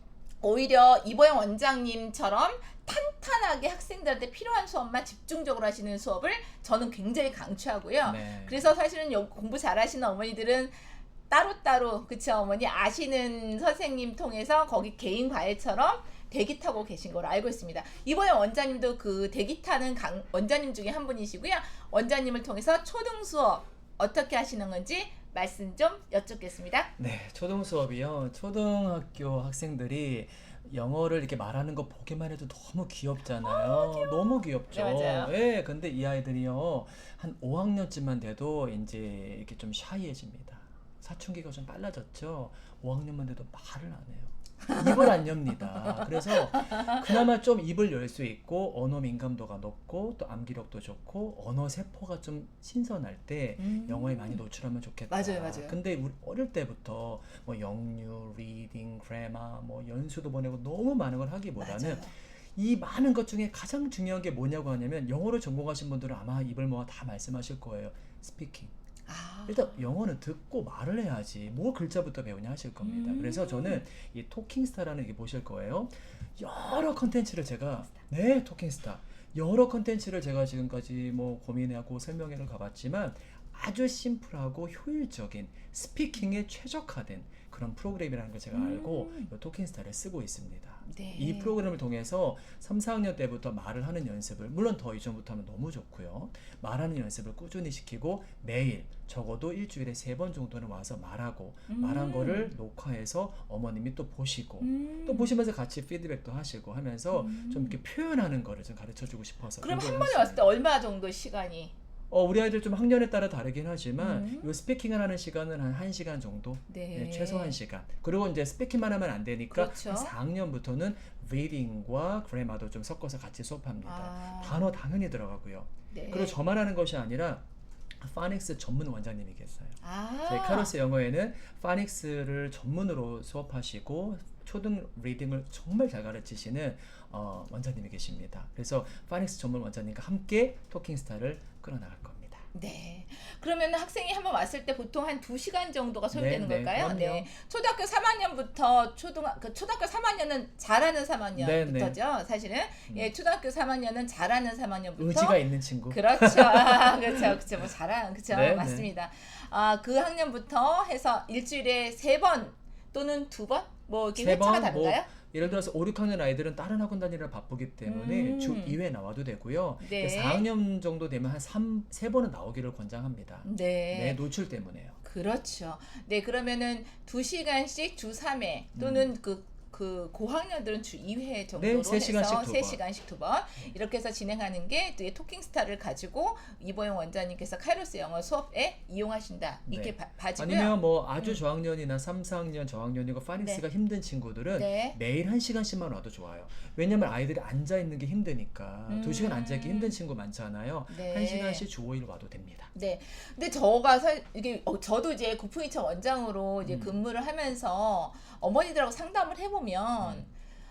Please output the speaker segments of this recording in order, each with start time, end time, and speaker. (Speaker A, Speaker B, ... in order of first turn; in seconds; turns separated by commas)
Speaker A: 0.4-26.9, Speaker B: 8.0-8.7, Speaker B: 27.0-68.7, Speaker A: 33.4-35.3, Speaker A: 44.7-45.1, Speaker A: 46.3-47.0, Speaker A: 53.6-54.4, Speaker A: 55.1-55.8, Speaker A: 61.6-62.1, Speaker A: 69.1-69.8, Speaker B: 69.5-110.5, Speaker A: 72.8-73.8, Speaker A: 88.5-89.3, Speaker A: 90.9-91.6, Speaker A: 101.7-102.5, Speaker A: 104.6-105.3, Speaker A: 107.1-107.8, Speaker A: 109.6-111.7, Speaker B: 112.1-127.4, Speaker A: 114.0-114.5, Speaker A: 116.7-117.6, Speaker A: 119.5-120.1, Speaker A: 123.8-124.6, Speaker A: 125.9-126.4, Speaker B: 128.0-142.4, Speaker A: 129.8-130.7, Speaker A: 142.5-165.6, Speaker B: 146.1-147.3, Speaker B: 151.3-152.0, Speaker B: 155.0-157.3, Speaker B: 158.3-158.9, Speaker B: 164.2-175.0, Speaker A: 167.8-168.8, Speaker A: 169.8-170.5, Speaker A: 173.4-174.2, Speaker A: 175.0-191.4, Speaker B: 178.8-179.1, Speaker B: 181.6-182.8, Speaker B: 189.7-202.7, Speaker A: 194.5-195.0, Speaker A: 198.9-200.0, Speaker A: 200.9-201.7, Speaker A: 202.7-210.3, Speaker B: 206.6-207.0, Speaker B: 210.0-210.3